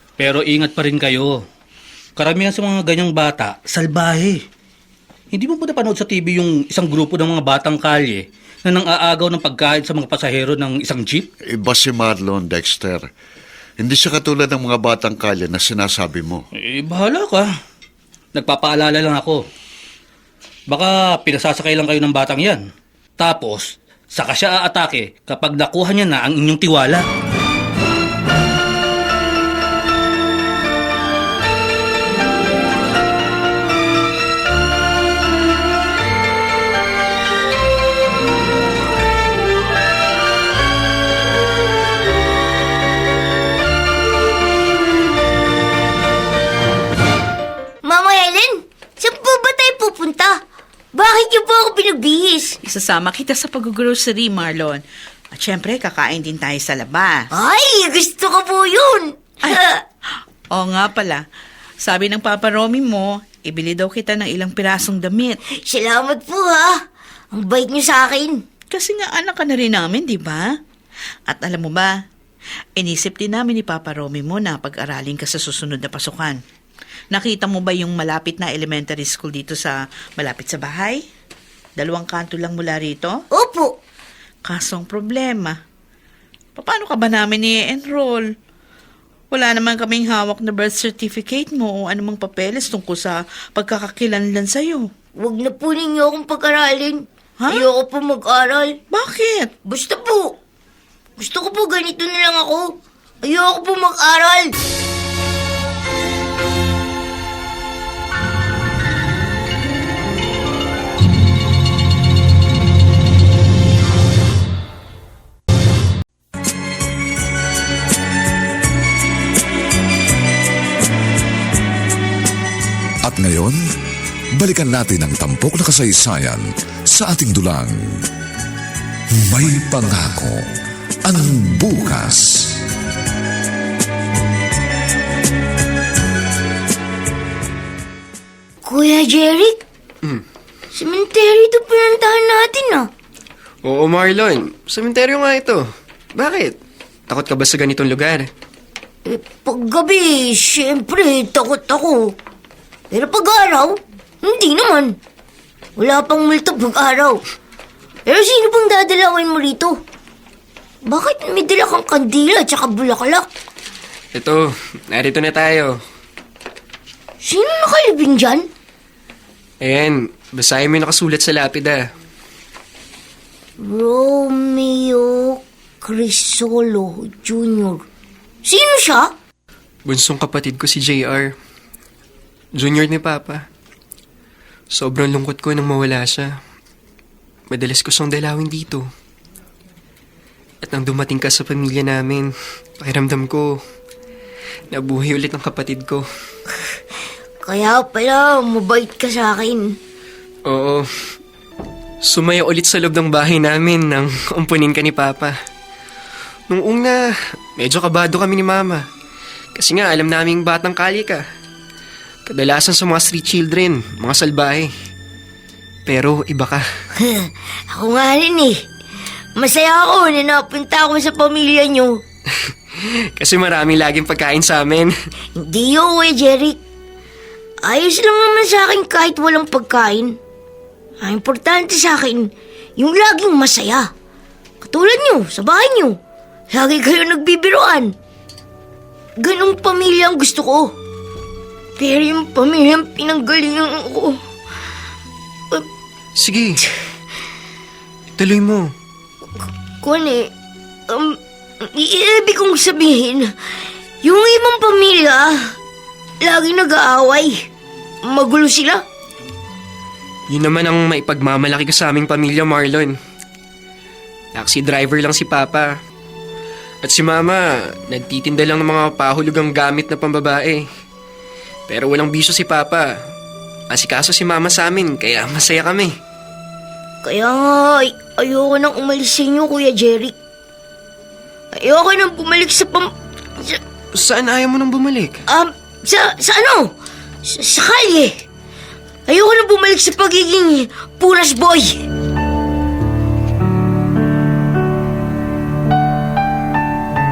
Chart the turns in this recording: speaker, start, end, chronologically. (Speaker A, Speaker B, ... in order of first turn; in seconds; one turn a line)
Speaker A: 0.2-1.4
Speaker A: 2.2-4.4
Speaker A: 5.3-11.3
Speaker B: 11.5-13.1
Speaker B: 13.8-16.4
Speaker A: 16.6-17.5
Speaker A: 18.4-19.4
Speaker A: 20.7-22.6
Speaker A: 23.2-27.1
Speaker C: 47.8-50.4
Speaker C: 50.9-52.6
Speaker D: 52.6-57.3
Speaker C: 57.3-59.8
Speaker D: 60.5-61.2
Speaker D: 61.8-65.4
Speaker C: 65.6-68.4
Speaker D: 68.7-70.5
Speaker D: 71.3-71.9
Speaker D: 72.8-76.4
Speaker D: 77.1-81.0
Speaker D: 81.8-83.2
Speaker C: 83.3-83.8
Speaker D: 84.5-85.6
Speaker D: 86.6-88.3
Speaker D: 89.3-94.9
Speaker C: 95.2-98.8
Speaker D: 97.4-97.7
Speaker D: 98.9-99.5
Speaker C: 99.7-100.4
Speaker C: 101.2-104.5
Speaker E: 123.0-123.6
Speaker E: 124.4-128.0
Speaker E: 129.2-130.5
Speaker E: 131.1-132.6
Speaker C: 138.6-139.6
Speaker C: 140.7-142.9
Speaker F: 143.7-146.6
Speaker F: 147.1-148.3
Speaker C: 149.1-152.1
Speaker C: 152.9-154.9
Speaker C: 155.8-157.2
Speaker C: 158.1-159.8
Speaker C: 160.9-163.3
Speaker F: 164.2-165.8
Speaker C: 167.2-168.5
Speaker F: 169.6-171.8
Speaker C: 173.6-177.8
Speaker C: 178.4-179.1
Speaker F: 179.9-181.3
Speaker F: 182.6-183.4
Speaker F: 184.7-186.4
Speaker F: 187.5-188.9
Speaker F: 190.6-193.6
Speaker F: 194.7-196.1
Speaker C: 197.4-199.8
Speaker F: 200.5-200.9
Speaker F: 202.0-205.4
Speaker F: 206.5-208.8
Speaker F: 209.6-211.2
Speaker F: 212.3-214.7
Speaker F: 215.9-216.6
Speaker C: 217.0-218.6
Speaker C: 219.4-222.0
Speaker F: 223.2-224.9
Speaker C: 225.4-226.6
Speaker C: 227.6-230.2
Speaker C: 231.0-233.9
Speaker C: 234.6-236.0
Speaker C: 236.5-237.9
Speaker C: 239.2-240.7
Speaker C: 241.8-244.2
Speaker F: 246.2-246.6
Speaker F: 248.2-248.7
Speaker C: 249.8-250.3
Speaker C: 250.9-253.3
Speaker C: 254.0-255.6
Speaker C: 256.2-257.5
Speaker C: 258.0-258.8
Speaker F: 260.3-263.0
Speaker F: 264.4-265.8
Speaker F: 266.8-270.7
Speaker F: 271.7-272.9
Speaker F: 273.7-275.9
Speaker C: 277.0-280.1
Speaker C: 281.5-283.6
Speaker F: 283.9-285.2
Speaker C: 285.3-286.7
Speaker C: 287.2-288.2
Speaker C: 289.1-291.8